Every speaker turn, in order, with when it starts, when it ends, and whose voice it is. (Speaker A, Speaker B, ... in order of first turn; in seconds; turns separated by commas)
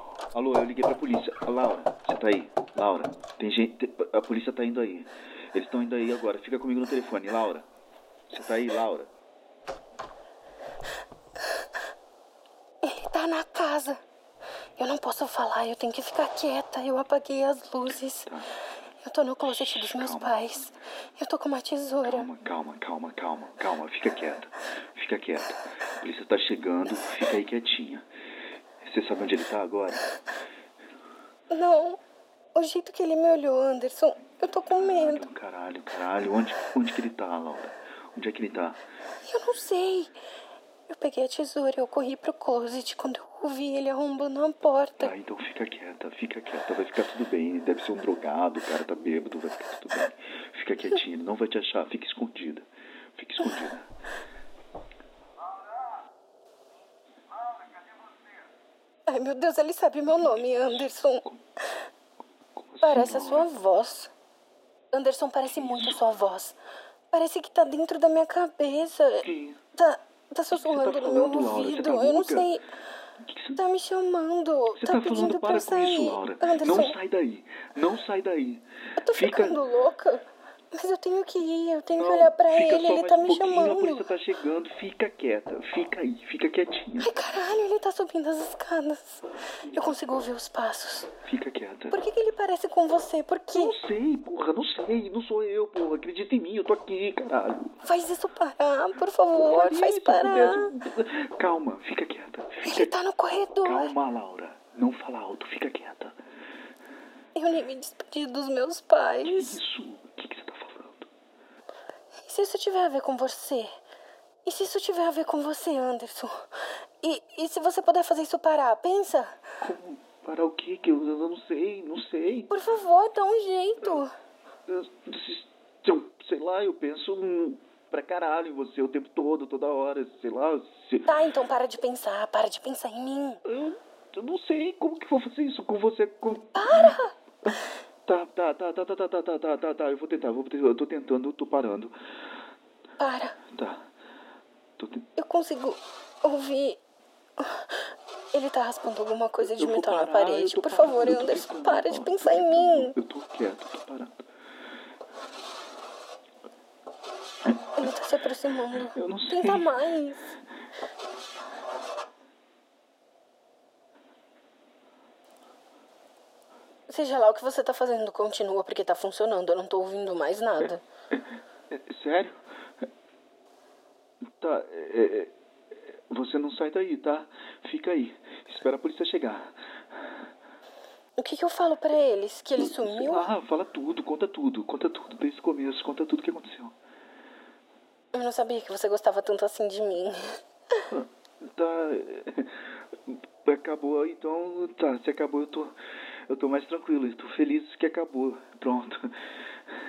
Speaker A: 0.3-7.7, Speaker A: 8.3-9.1, Speaker B: 12.8-14.0, Speaker B: 14.8-18.3, Speaker A: 18.3-18.6, Speaker B: 19.0-22.3, Speaker A: 19.5-20.6, Speaker A: 22.0-28.1, Speaker A: 28.8-30.2, Speaker B: 31.5-32.0, Speaker B: 32.5-35.3, Speaker A: 34.6-38.8, Speaker B: 39.3-40.1, Speaker B: 40.9-45.1, Speaker A: 45.0-53.9, Speaker B: 59.1-61.2, Speaker A: 62.6-63.5, Speaker B: 62.8-64.1, Speaker B: 64.9-66.6, Speaker A: 65.7-66.0, Speaker B: 67.1-72.6, Speaker A: 69.2-69.6, Speaker A: 70.5-72.5, Speaker A: 73.2-73.6, Speaker B: 73.5-77.0, Speaker A: 74.8-79.6, Speaker B: 79.0-84.1, Speaker A: 82.0-87.1, Speaker B: 87.0-91.1, Speaker A: 91.2-92.0, Speaker B: 91.9-93.8, Speaker A: 93.5-97.7, Speaker B: 97.8-100.7, Speaker A: 99.3-102.9, Speaker B: 102.6-103.9, Speaker A: 103.6-106.2, Speaker B: 107.3-109.6, Speaker A: 109.2-111.1, Speaker B: 112.2-113.7, Speaker B: 114.5-116.3, Speaker B: 117.0-119.3, Speaker A: 119.6-122.5, Speaker B: 122.5-124.1, Speaker A: 124.7-131.1, Speaker B: 131.1-133.4, Speaker A: 133.5-137.6, Speaker B: 136.6-137.1, Speaker A: 138.1-141.9, Speaker B: 143.0-143.4, Speaker A: 143.5-143.9, Speaker A: 144.8-145.1, Speaker B: 145.2-146.8, Speaker B: 147.4-153.0, Speaker A: 149.4-154.2, Speaker A: 157.5-157.8, Speaker B: 157.8-160.3, Speaker A: 158.8-159.8, Speaker B: 166.9-170.8, Speaker A: 171.7-172.4, Speaker A: 174.4-175.3, Speaker A: 176.1-179.6, Speaker B: 181.2-183.3, Speaker A: 182.6-186.8, Speaker B: 188.1-190.2, Speaker A: 190.9-192.6, Speaker A: 193.1-195.8, Speaker A: 196.3-199.2